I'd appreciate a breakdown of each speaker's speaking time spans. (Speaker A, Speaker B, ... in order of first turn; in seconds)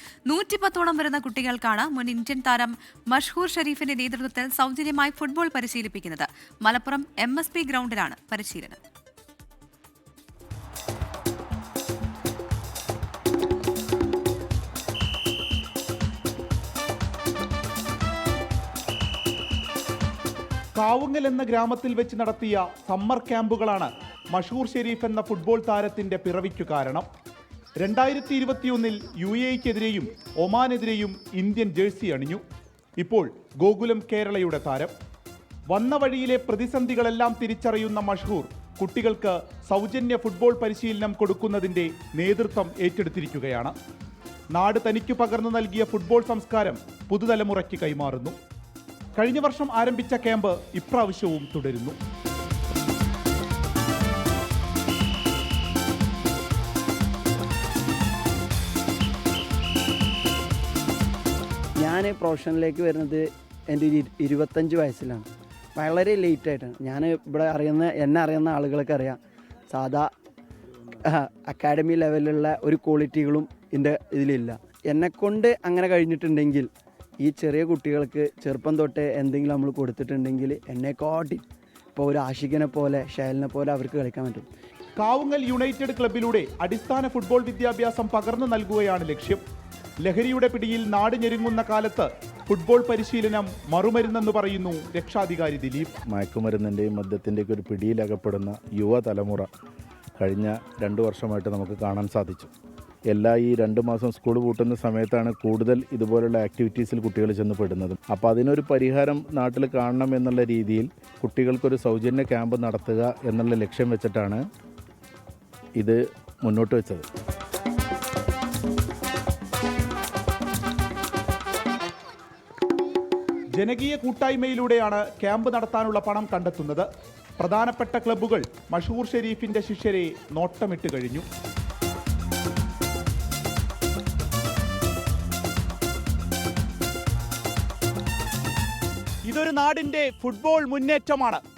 Speaker A: 0.3-8.8
Speaker B: 20.7-27.1, 27.8-32.4, 33.0-34.9, 35.7-43.7, 44.5-48.4, 49.1-52.0, 85.0-89.4, 90.0-95.9, 123.6-126.9, 127.4-131.2, 139.3-141.4
Speaker C: 61.8-69.2, 69.7-70.1, 71.0-81.4, 81.9-84.5
Speaker D: 96.0-99.5, 100.2-102.5, 103.1-114.4, 115.8-117.0